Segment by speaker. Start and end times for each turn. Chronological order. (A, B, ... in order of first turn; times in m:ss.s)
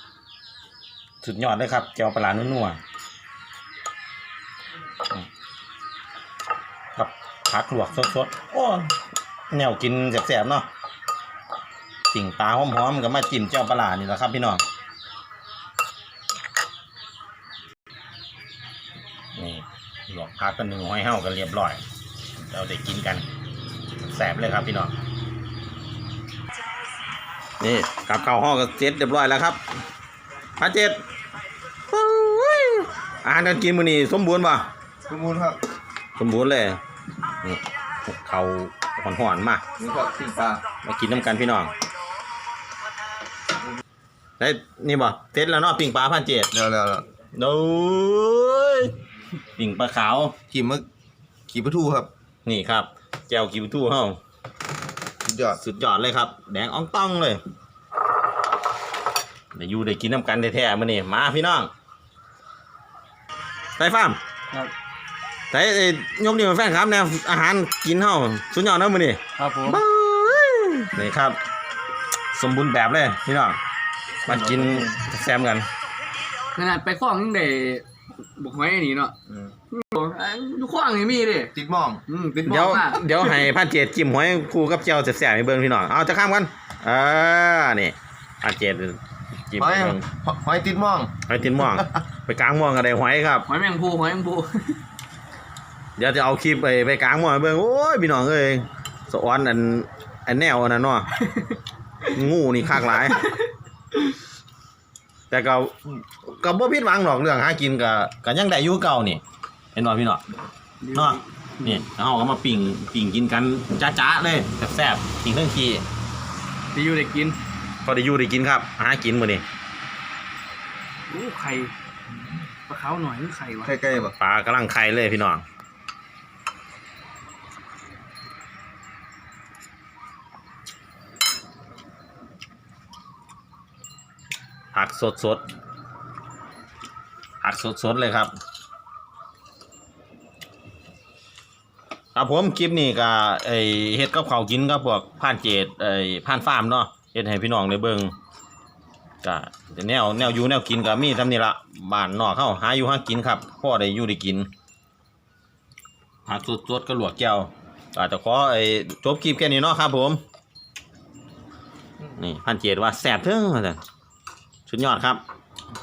0:01.2-0:02.8 A
0:07.0-0:09.0 A
0:09.5-0:10.7 A
0:12.1-0:14.6 A
0:19.4-0:21.8 A
0:22.5-0:23.2 A
0:24.0-0:24.9 A
0:27.6-0:29.6 A
0:30.6-0:31.0 A
0:31.9-0:34.7 A
0:35.1-0:35.6 B
0:36.2-0:36.8 A
0:37.4-0:39.6 A
0:39.8-0:40.6 B
0:40.8-0:41.7 A
0:44.4-0:46.5 A
0:46.5-0:47.1 B
0:47.3-0:48.9 A
0:49.6-0:50.4 A
0:50.5-0:50.9 B
0:51.5-0:52.1 B
0:52.4-0:54.2 A
0:55.2-0:55.6 B
0:55.5-0:57.4 A
0:59.6-1:01.7 A
1:03.8-1:04.2 A
1:05.5-1:11.4 A
1:09.4-1:09.8 C
1:12.3-1:13.6 A
1:14.3-1:15.7 A
1:14.3-1:15.0 B
1:16.5-1:19.1 C
1:19.7-1:21.5 C
1:21.5-1:22.0 B
1:22.1-1:23.5 C
1:22.4-1:30.0 A
1:29.6-1:31.1 B
1:31.3-1:33.5 A
1:33.5-1:34.8 C
1:36.0-1:41.1 A
1:42.1-1:43.3 A
1:45.3-1:49.2 A
1:49.8-1:50.2 A
1:50.8-1:51.8 C
1:50.9-1:55.8 A
1:56.7-1:57.4 C
1:57.8-1:59.4 A
2:01.1-2:03.7 C
2:03.6-2:04.2 B
2:04.2-2:05.4 A
2:14.7-2:15.4 A
2:17.4-2:18.3 A
2:22.2-2:28.1 A
2:29.2-2:34.5 A
2:36.3-2:40.2 A
2:42.1-2:43.8 A
2:44.7-2:45.2 A